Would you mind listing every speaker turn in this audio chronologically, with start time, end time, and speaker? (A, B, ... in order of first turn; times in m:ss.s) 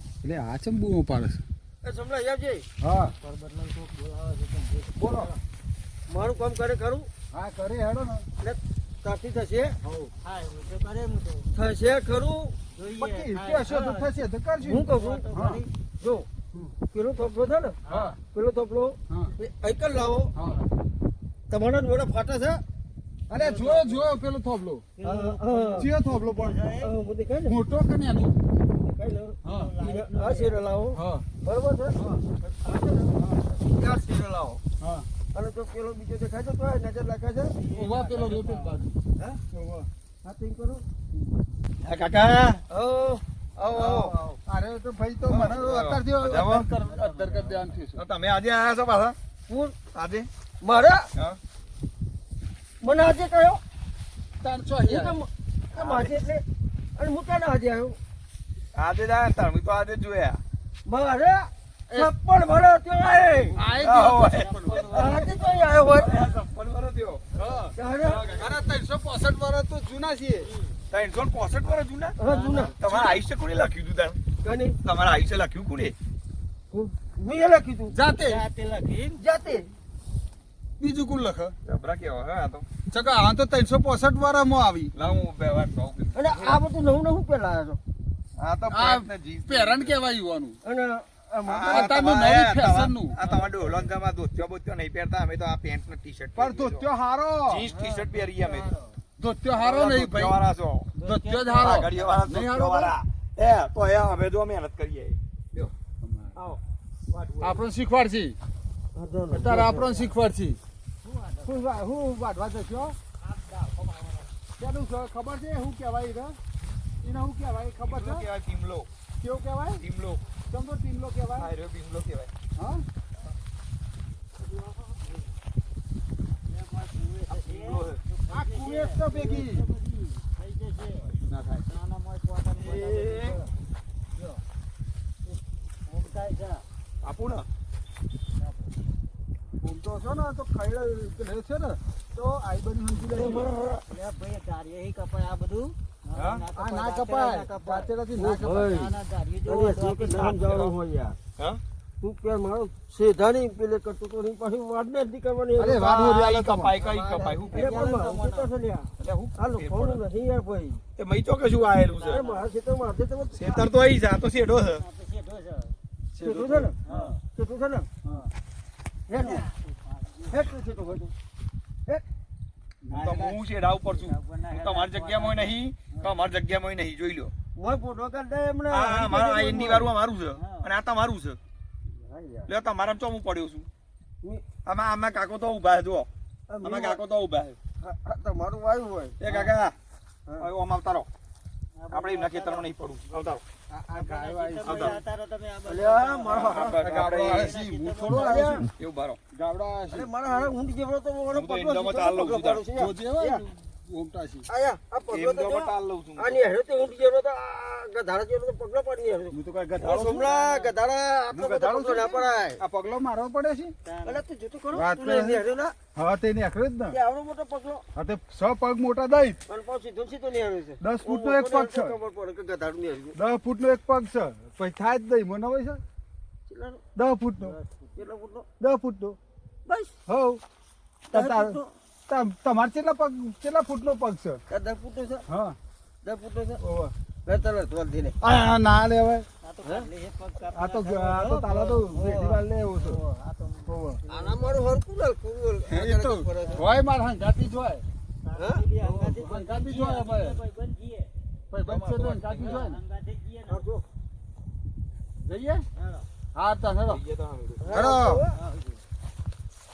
0:00.2-0:01.4 A
0:01.8-0:02.7 B
0:02.8-0:03.2 A
0:03.0-0:05.4 C
0:05.0-0:05.3 A
0:06.1-0:07.1 B
0:07.3-0:08.3 A
0:08.4-0:09.8 B
0:09.8-0:10.1 A
0:10.2-0:11.5 C
0:11.5-0:12.6 B
0:12.7-0:14.1 C
0:13.0-0:15.6 A
0:14.6-0:15.4 B
0:14.8-0:15.7 C
0:16.0-0:16.3 B
0:16.9-0:20.3 B
0:17.8-0:18.2 C
0:17.9-0:18.2 A
0:20.4-0:20.7 A
0:21.5-0:22.6 B
0:23.3-0:24.2 C
0:23.3-0:24.8 A
0:25.0-0:26.9 C
0:25.0-0:25.9 B
0:25.7-0:26.6 A
0:26.8-0:27.6 B
0:27.5-0:28.4 A
0:28.7-0:34.6 B
0:29.4-0:29.7 A
0:29.4-0:30.6 C
0:31.0-0:31.3 A
0:34.8-0:35.1 A
0:35.3-0:37.6 B
0:37.5-0:38.9 C
0:37.8-0:39.0 A
0:39.5-0:39.9 A
0:40.2-0:40.8 B
0:41.8-0:42.6 D
0:42.7-0:44.2 B
0:43.7-0:44.1 D
0:43.9-0:48.0 A
0:45.3-0:46.7 D
0:46.8-0:47.8 C
0:47.9-0:49.2 D
0:49.5-0:49.8 B
0:49.9-0:50.3 D
0:50.6-0:51.1 B
0:52.8-0:53.6 B
0:54.4-0:55.2 A
0:54.8-0:56.4 B
0:55.8-0:56.1 D
0:57.0-0:58.0 B
0:58.7-1:00.4 D
1:00.9-1:03.6 B
1:03.6-1:05.2 D
1:03.6-1:05.1 A
1:03.6-1:06.4 C
1:04.9-1:06.2 B
1:05.8-1:07.2 D
1:07.4-1:07.7 A
1:07.8-1:08.4 B
1:08.0-1:08.6 D
1:08.3-1:10.5 A
1:10.4-1:10.8 C
1:10.9-1:12.2 D
1:12.2-1:12.8 B
1:12.2-1:13.2 C
1:12.7-1:14.2 D
1:14.4-1:14.8 B
1:14.8-1:16.0 D
1:16.7-1:18.0 B
1:17.9-1:18.4 A
1:18.1-1:19.2 C
1:19.2-1:19.7 B
1:20.8-1:21.6 A
1:21.6-1:22.7 D
1:22.9-1:24.9 A
1:25.0-1:26.6 D
1:26.1-1:27.8 B
1:28.4-1:30.0 D
1:28.7-1:30.6 A
1:30.6-1:32.0 B
1:31.5-1:36.9 D
1:31.7-1:33.2 A
1:33.2-1:33.9 C
1:36.4-1:37.7 A
1:37.5-1:38.7 D
1:37.7-1:39.0 C
1:39.2-1:40.4 A
1:39.6-1:40.9 D
1:41.0-1:42.2 C
1:41.0-1:42.9 A
1:41.6-1:45.7 D
1:46.0-1:46.4 A
1:46.4-1:47.6 D
1:47.4-1:48.4 A
1:49.0-1:50.1 B
1:49.3-1:50.6 A
1:51.0-1:51.8 C
1:51.4-1:53.0 A
1:53.2-1:54.3 C
1:54.6-1:56.4 A
1:57.0-1:58.2 A
1:57.9-1:58.9 D
1:59.2-1:59.8 A
1:59.8-2:00.2 D
2:00.5-2:01.5 A
2:01.4-2:02.3 D
2:02.6-2:02.8 A
2:04.8-2:05.1 C
2:06.5-2:13.5 C
2:07.3-2:08.0 D
2:08.3-2:09.7 A
2:11.3-2:11.6 A
2:12.7-2:13.4 D
2:15.9-2:16.6 C
2:17.0-2:17.5 D
2:18.4-2:18.7 C
2:19.6-2:23.5 A
2:23.2-2:23.8 B
2:23.4-2:30.6 C
2:26.2-2:28.7 A
2:28.2-2:31.2 B
2:32.0-2:35.9 B
2:35.6-2:36.7 A
2:35.7-2:38.0 D
2:36.8-2:38.5 C
2:37.5-2:40.8 B
2:39.0-2:40.0 D
2:41.0-2:42.2 D
2:41.8-2:42.5 C
2:42.1-2:43.7 B
2:43.3-2:44.8 D
2:44.8-2:45.8 C
2:46.2-2:47.9 B
2:46.2-2:46.7 A
2:46.8-2:47.2 C
2:49.1-2:49.5 B
2:49.2-2:50.5 C
2:50.3-2:51.1 B
2:52.9-2:56.1 C
2:52.9-2:57.3 D
2:57.6-2:59.9 B
2:58.7-3:01.4 D
3:00.4-3:00.7 C
3:01.9-3:02.5 B
3:02.5-3:03.7 D
3:04.6-3:06.1 D
3:06.5-3:07.0 B
3:06.6-3:07.6 D
3:07.8-3:09.5 B
3:09.2-3:09.8 D
3:10.4-3:11.1 D
3:11.8-3:12.7 C
3:11.9-3:13.4 D
3:13.7-3:15.0 A
3:13.9-3:16.5 C
3:14.6-3:15.0 D
3:15.7-3:16.8 B
3:16.3-3:17.6 D
3:16.5-3:18.7 A
3:17.3-3:18.6 C
3:18.1-3:18.7 B
3:18.6-3:19.2 D
3:19.3-3:20.1 A
3:19.9-3:23.5 B
3:21.3-3:22.6 D
3:22.8-3:24.5 A
3:24.5-3:32.6 B
3:25.1-3:26.4 D
3:29.3-3:30.3 A
3:30.1-3:30.8 C
3:31.3-3:33.7 A
3:33.8-3:34.2 C
3:34.0-3:35.8 B
3:34.7-3:35.4 A
3:36.0-3:37.0 A
3:36.9-3:37.8 B
3:38.0-3:39.4 A
3:39.5-3:43.2 B
3:40.8-3:42.0 A
3:43.2-3:45.8 A
3:46.5-3:46.8 B
3:47.0-3:47.6 A
3:47.4-3:48.0 C
3:48.0-3:48.5 B
3:48.6-3:49.2 A
3:49.7-3:50.0 B
3:50.1-3:50.4 A
3:51.1-3:54.4 A
3:51.1-3:51.7 B
3:54.5-3:55.3 B
3:55.3-3:55.6 A
3:56.0-3:56.6 B
3:56.6-3:56.9 A
3:57.3-3:58.2 B
3:58.2-3:59.3 A
3:59.4-4:04.6 C
3:59.6-3:59.9 B
4:00.5-4:03.0 A
4:01.7-4:02.2 B
4:03.7-4:04.0 A
4:04.1-4:06.7 B
4:05.7-4:07.8 A
4:06.4-4:06.7 C
4:08.2-4:11.1 C
4:08.4-4:08.6 B
4:08.8-4:10.4 A
4:11.5-4:12.8 A
4:11.6-4:12.6 D
4:12.2-4:13.6 C
4:13.5-4:13.8 B
4:15.2-4:15.6 A
4:15.8-4:16.1 C
4:16.4-4:17.0 A
4:16.8-4:18.0 D
4:17.6-4:18.4 B
4:17.8-4:18.2 A
4:18.4-4:18.8 C